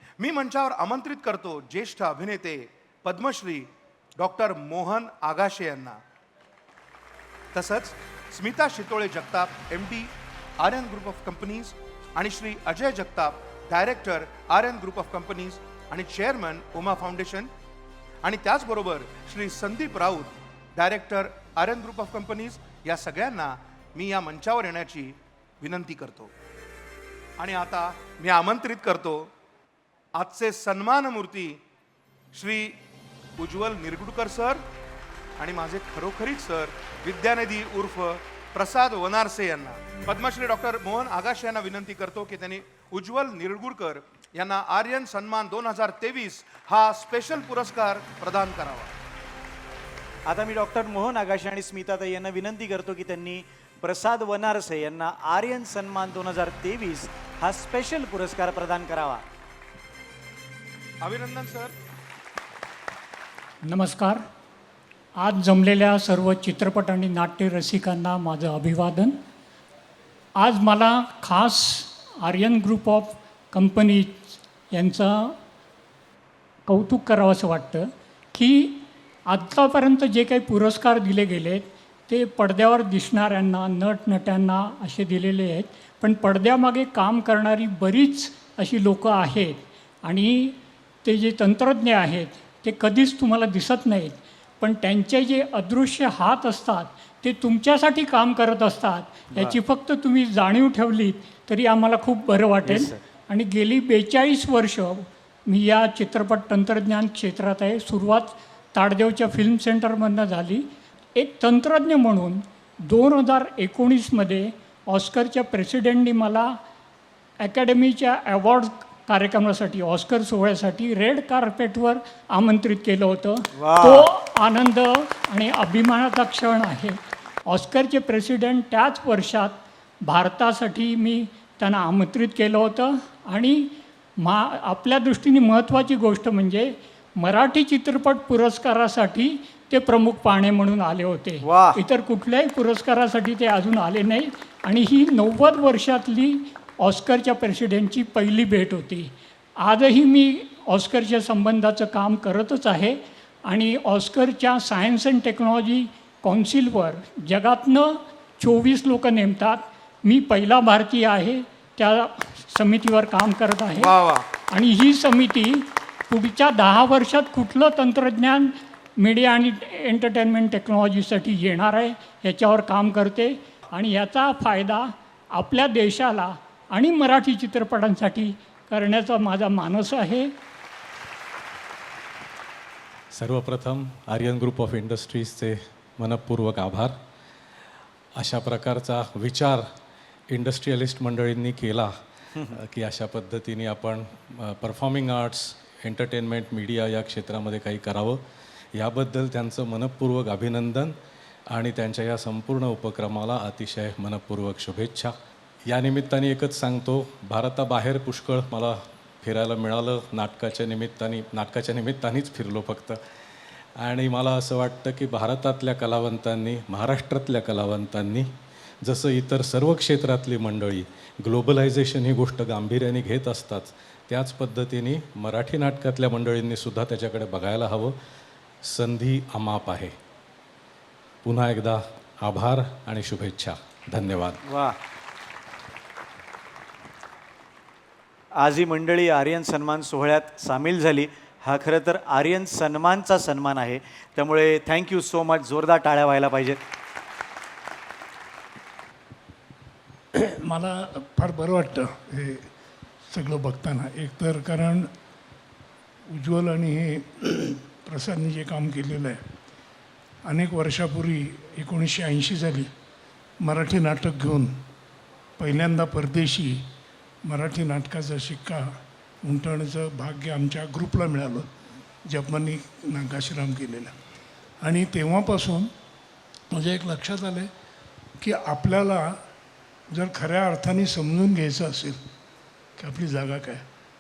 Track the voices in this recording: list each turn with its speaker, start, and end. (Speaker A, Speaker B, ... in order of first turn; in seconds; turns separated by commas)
Speaker A: 0.2-6.0, Speaker A: 7.5-17.5, Speaker A: 18.2-26.3, Speaker A: 27.4-29.3, Speaker A: 30.1-31.6, Speaker A: 32.3-32.8, Speaker A: 33.4-34.6, Speaker A: 35.4-48.9, Speaker B: 50.3-59.2, Speaker A: 61.0-61.7, Speaker C: 63.6-64.2, Speaker C: 65.2-69.2, Speaker C: 70.4-75.3, Speaker C: 76.7-116.6, Speaker B: 102.7-103.0, Speaker C: 117.4-163.9, Speaker B: 123.6-124.1, Speaker B: 141.4-141.8, Speaker A: 163.8-164.3, Speaker C: 164.5-180.3, Speaker D: 183.1-186.9, Speaker D: 188.2-189.7, Speaker D: 190.3-198.2, Speaker D: 198.8-200.9, Speaker D: 201.5-205.1, Speaker D: 205.7-213.0, Speaker D: 213.8-218.3, Speaker D: 218.8-227.9, Speaker D: 228.6-229.9, Speaker D: 231.2-234.4, Speaker B: 234.5-234.8, Speaker B: 238.4-246.6, Speaker E: 250.2-252.5, Speaker E: 253.1-254.9, Speaker E: 256.1-259.2, Speaker E: 260.2-262.7, Speaker E: 263.4-264.6, Speaker E: 265.4-266.6, Speaker E: 267.2-271.5, Speaker E: 272.1-274.0, Speaker E: 274.6-275.7, Speaker E: 276.5-277.5, Speaker E: 278.2-279.2, Speaker E: 279.9-282.0, Speaker E: 282.8-283.6